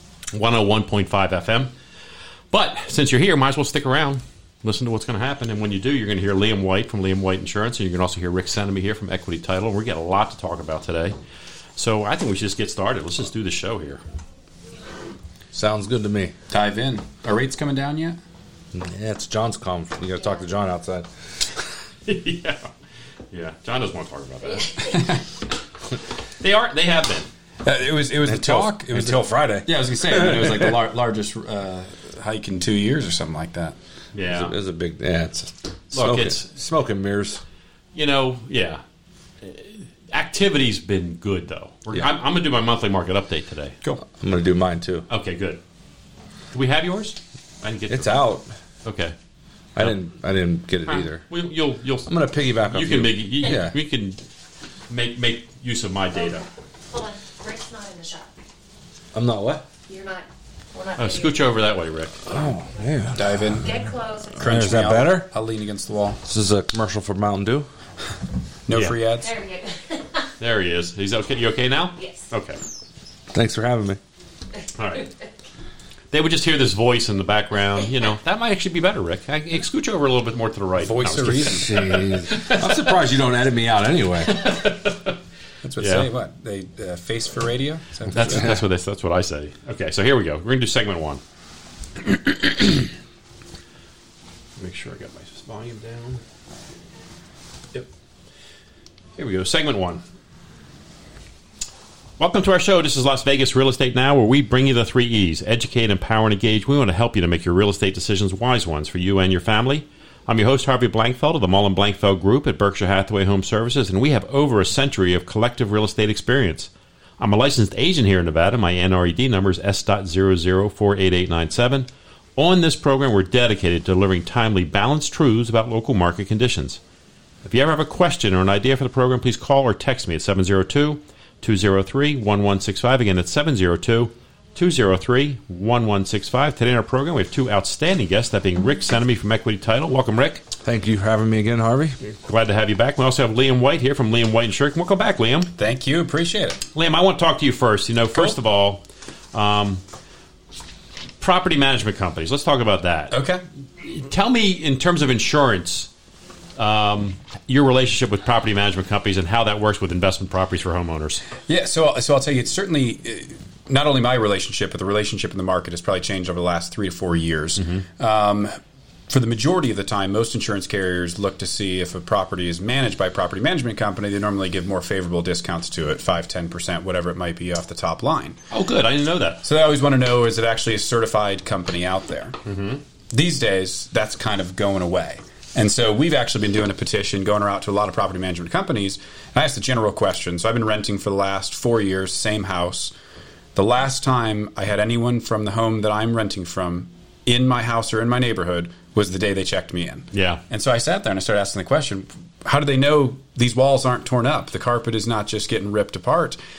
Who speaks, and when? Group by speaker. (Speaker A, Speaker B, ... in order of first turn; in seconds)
Speaker A: 0.3-1.7, 2.5-11.2, 11.8-14.0, 22.1-22.7, 23.3-24.9, 26.4-27.3, 34.1-34.5, 35.9-36.5, 38.0-38.8, 39.4-43.8, 45.1-45.6, 46.5-48.3, 48.8-49.1, 50.9-52.1, 52.7-54.2, 54.9-56.4, 61.0-62.3, 70.4-72.6, 74.8-75.1, 76.1-83.0, 84.2-85.2, 85.8-86.1, 88.1-91.2, 94.6-96.2, 99.2-100.0, 102.2-126.8, 127.4-140.4, 142.3-145.5, 146.8-148.8, 149.3-149.8, 151.2-153.2, 153.8-155.9, 156.6-161.2, 178.5-179.4, 182.4-182.8, 200.1-200.4
Speaker B: 15.5-16.3, 18.7-21.1, 28.2-30.8, 34.3-37.4, 44.0-45.1, 47.9-48.5, 49.8-51.2, 52.1-53.8, 59.1-59.6, 62.3-63.6, 64.4-65.3, 66.2-67.7, 73.3-74.0, 81.2-84.4, 88.1-88.6, 140.6-142.0
Speaker C: 16.5-18.2, 24.9-25.2, 27.6-33.8, 63.1-63.7, 64.4-66.2, 68.7-69.3, 80.8-81.8, 85.6-88.6, 145.6-146.6, 153.1-153.4, 161.5-168.6, 169.1-178.4, 179.4-182.4, 183.1-192.9, 193.6-206.4
Speaker D: 56.2-58.3, 59.9-61.5, 63.6-64.6, 69.2-70.3, 72.0-72.3